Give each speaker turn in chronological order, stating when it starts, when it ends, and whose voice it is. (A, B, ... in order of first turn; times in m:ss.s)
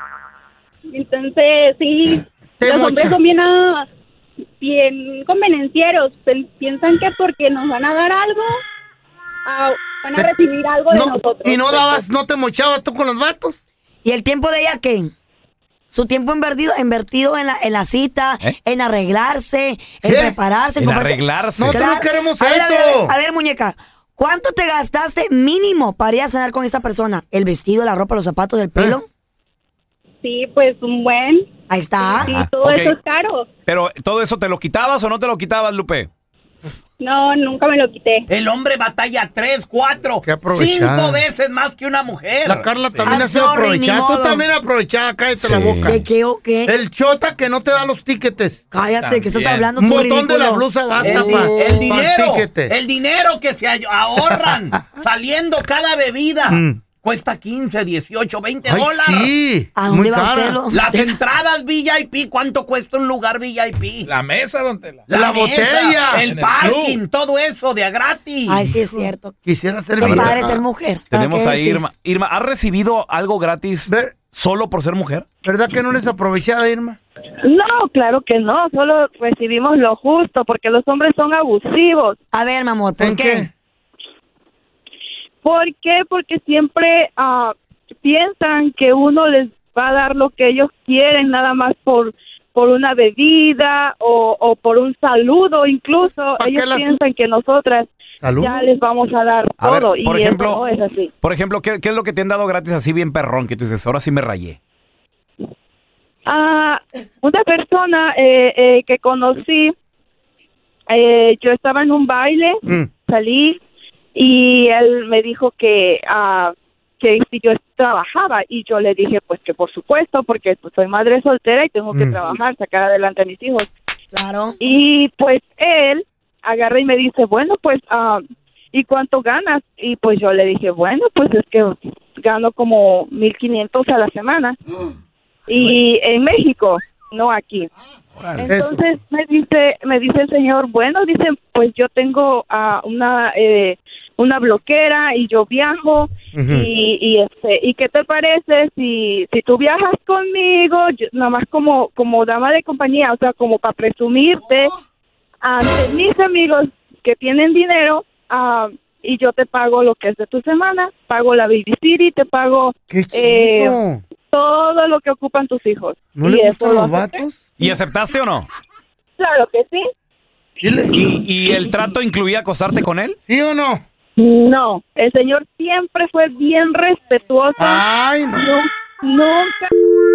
0:00.9-0:03.9 A
0:02.6-0:03.2 B
0:04.6-0:08.6 A
0:09.5-0:12.0 A
0:10.9-0:13.6 B
0:14.0-0:15.1 C
0:15.9-0:29.1 C
0:20.0-0:20.4 B
0:20.8-0:21.8 D
0:21.6-0:23.1 B
0:30.2-0:31.5 A
0:31.7-0:32.3 C
0:32.0-0:33.5 A
0:32.3-0:32.7 D
0:33.7-0:36.1 E
0:37.0-0:38.3 A
0:38.3-0:42.7 D
0:40.2-0:41.2 B
0:42.4-0:46.0 B
0:42.9-0:43.2 F
0:43.0-0:44.4 C
0:45.6-0:45.9 D
0:45.8-0:46.8 C
0:46.7-0:48.6 B
0:48.7-0:51.5 C
0:49.0-0:49.4 F
0:49.3-0:49.7 D
0:49.8-0:52.7 B
0:51.0-0:59.3 D
0:51.0-0:51.8 F
0:54.3-0:55.0 B
0:56.5-0:56.8 B
0:58.6-1:00.6 B
0:59.8-1:01.2 C
1:00.7-1:04.1 D
1:04.1-1:05.0 F
1:05.1-1:08.6 D
1:05.1-1:06.3 B
1:06.1-1:07.0 F
1:08.5-1:09.3 C
1:09.4-1:10.6 B
1:10.0-1:10.6 D
1:10.0-1:11.8 C
1:11.2-1:15.2 D
1:11.4-1:12.6 E
1:13.9-1:14.2 B
1:15.4-1:17.0 B
1:17.4-1:22.2 G
1:22.3-1:23.5 C
1:23.0-1:23.5 B
1:25.4-1:41.1 G
1:36.4-1:37.0 B
1:38.2-1:38.7 B
1:39.6-1:40.6 E
1:41.2-1:44.6 E
1:46.3-1:49.7 G
1:50.9-1:52.6 G
1:53.1-1:53.6 G
1:54.2-2:03.7 G
2:01.9-2:02.2 B
2:04.1-2:04.6 C
2:04.6-2:08.2 G
2:08.7-2:14.6 G
2:15.5-2:17.7 G
2:18.4-2:34.7 G
2:18.5-2:18.8 B
2:26.3-2:26.7 B
2:35.4-2:43.8 G
2:42.9-2:44.0 B
2:44.3-2:47.2 G
2:46.2-2:47.5 B
2:47.6-2:48.5 E
2:47.7-2:48.1 D
2:49.2-2:49.8 G
2:50.6-2:51.1 B
2:51.1-2:53.1 E
2:51.8-2:52.1 D
2:53.3-2:53.8 B
2:54.2-2:57.8 G
2:57.6-2:58.6 B
2:58.4-2:59.7 G